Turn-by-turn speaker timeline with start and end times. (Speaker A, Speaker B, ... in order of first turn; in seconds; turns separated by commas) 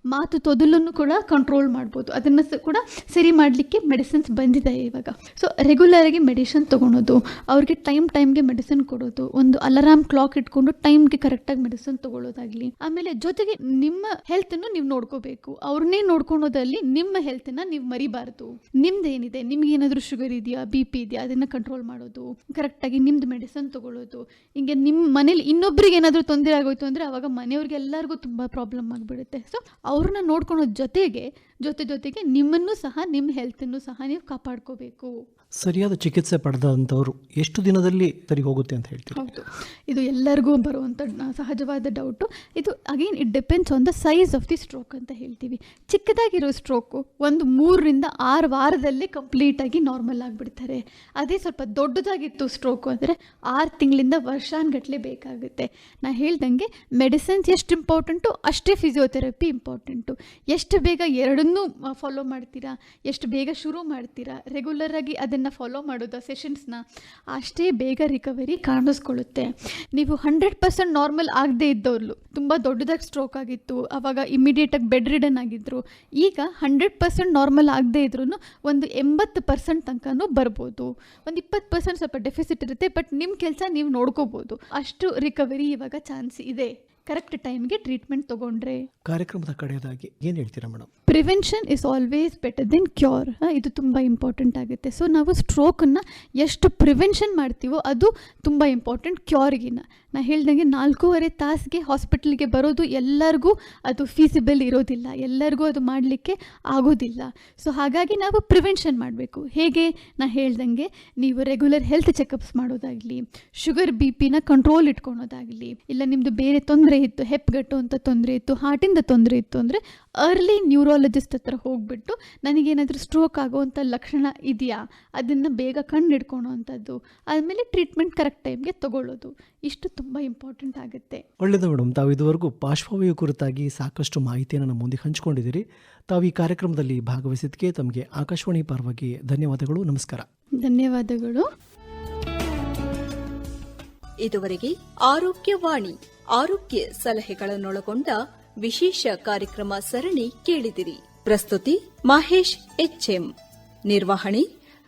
Speaker A: 0.1-35.1, Speaker B: 35.6-39.3, Speaker A: 39.1-66.8, Speaker A: 67.3-88.8, Speaker B: 89.1-90.9, Speaker A: 91.1-131.2, Speaker B: 131.4-140.3, Speaker A: 140.6-141.5, Speaker C: 144.2-153.3, Speaker C: 153.9-154.5